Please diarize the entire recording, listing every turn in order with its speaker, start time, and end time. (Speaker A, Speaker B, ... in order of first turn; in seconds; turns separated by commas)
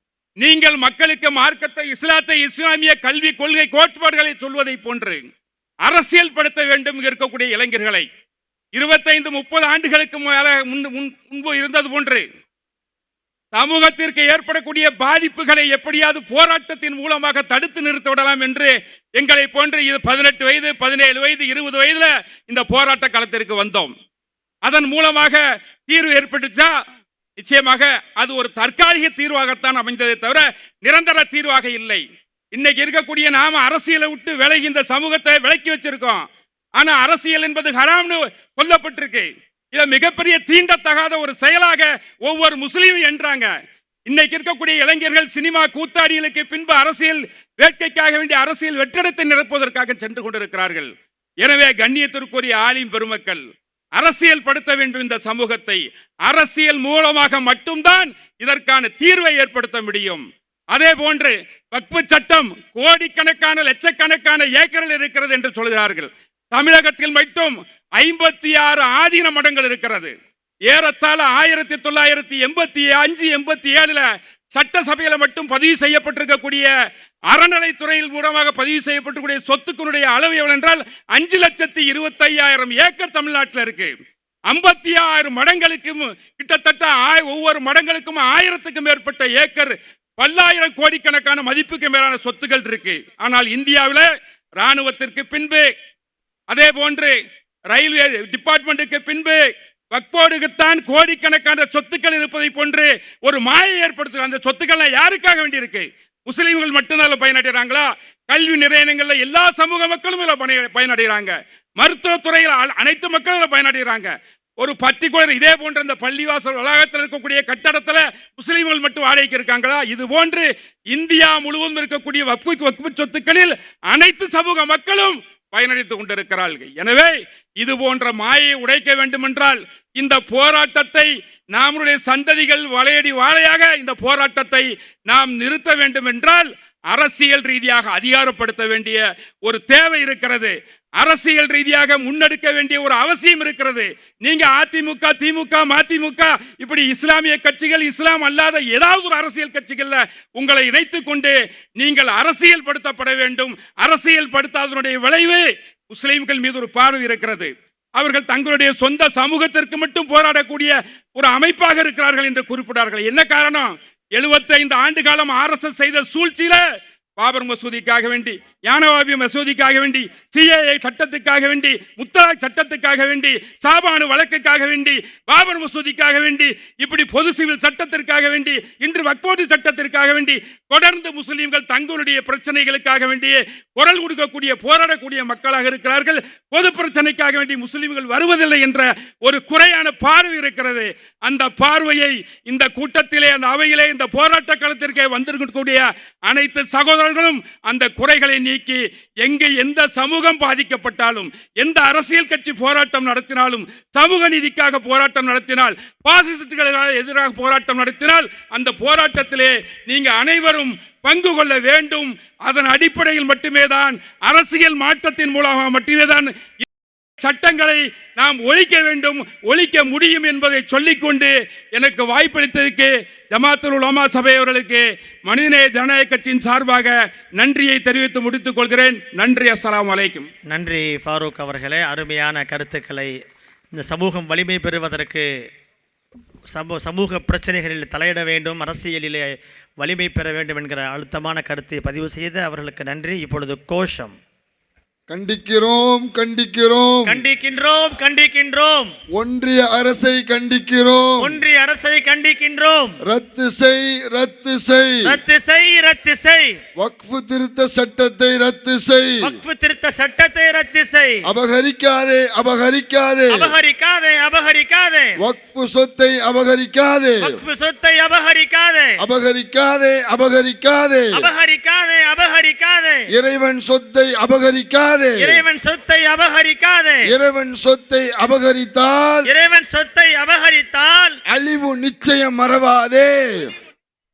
Speaker A: 0.4-5.2, Speaker A: 5.8-8.1, Speaker A: 8.7-12.2, Speaker A: 13.5-23.9, Speaker A: 24.6-26.7, Speaker A: 27.4-36.2, Speaker A: 36.8-43.5, Speaker A: 44.1-50.9, Speaker A: 51.4-53.4, Speaker A: 54.0-70.1, Speaker A: 70.7-76.7, Speaker A: 77.3-83.9, Speaker A: 84.5-95.7, Speaker A: 96.5-97.1, Speaker A: 97.7-99.4, Speaker A: 99.9-166.7, Speaker A: 167.2-216.3, Speaker A: 217.2-230.3, Speaker B: 230.5-233.1, Speaker B: 233.7-235.2, Speaker B: 236.5-244.1, Speaker C: 245.1-247.2, Speaker B: 247.1-248.9, Speaker C: 249.1-251.4, Speaker B: 251.2-253.0, Speaker C: 253.1-255.2, Speaker B: 255.0-256.6, Speaker C: 256.8-259.3, Speaker B: 259.2-261.2, Speaker C: 261.2-263.5, Speaker B: 263.3-265.2, Speaker C: 265.2-267.4, Speaker B: 267.2-269.0, Speaker C: 269.0-271.3, Speaker B: 271.1-273.1, Speaker C: 273.1-275.4, Speaker B: 275.2-277.1, Speaker C: 277.0-279.3, Speaker B: 279.3-281.2, Speaker C: 281.3-283.5